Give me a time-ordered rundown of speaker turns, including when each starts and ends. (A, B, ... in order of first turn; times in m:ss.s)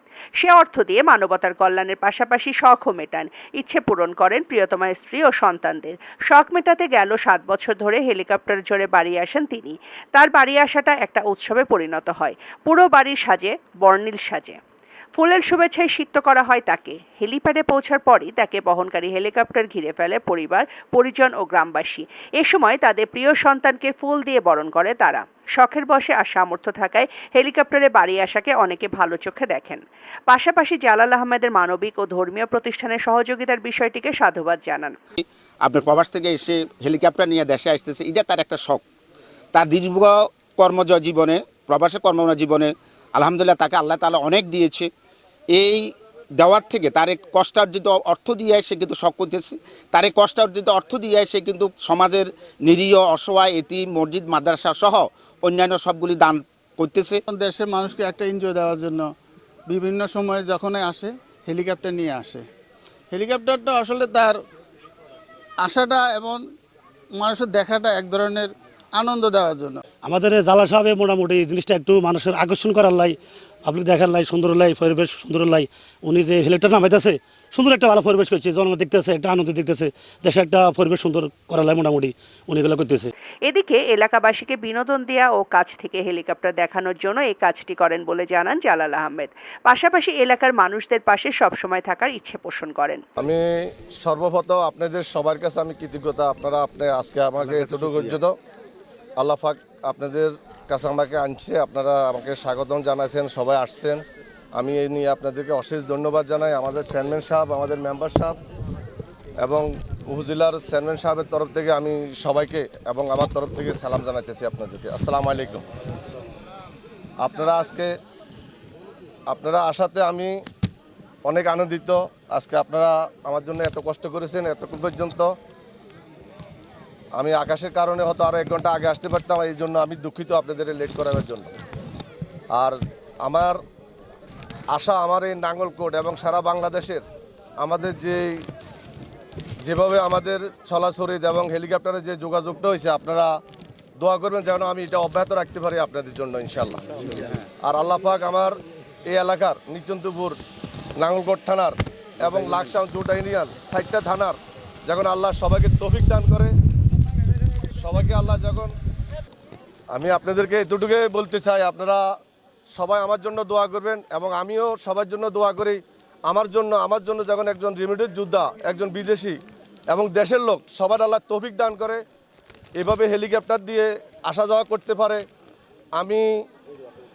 0:00.4-0:14.6 A
0:15.1-0:35.0 A
0:35.2-0:38.8 B
0:39.5-0:44.9 B
0:45.5-0:45.8 B
0:46.4-0:57.2 B
0:57.3-0:59.1 C
0:59.7-1:02.5 C
1:03.1-1:04.4 C
1:05.6-1:06.4 C
1:07.1-1:09.8 C
1:10.0-1:23.1 D
1:23.4-1:33.0 A
1:33.2-1:38.3 E
1:37.4-1:38.2 B
1:39.2-1:44.0 E
1:44.6-1:48.4 E
1:49.4-1:55.6 E
1:57.2-1:57.9 E
1:59.3-2:00.3 E
2:01.2-2:05.3 E
2:07.2-2:11.5 E
2:12.5-2:13.6 E
2:14.7-2:17.0 E
2:17.6-2:18.4 E
2:19.6-2:23.3 E
2:24.0-2:26.8 E
2:27.6-2:30.4 E
2:31.0-2:36.5 E
2:37.8-2:38.7 E
2:39.9-2:42.0 E
2:42.7-2:49.4 E
2:49.9-2:52.0 E
2:52.8-2:55.2 E
2:56.0-2:56.3 E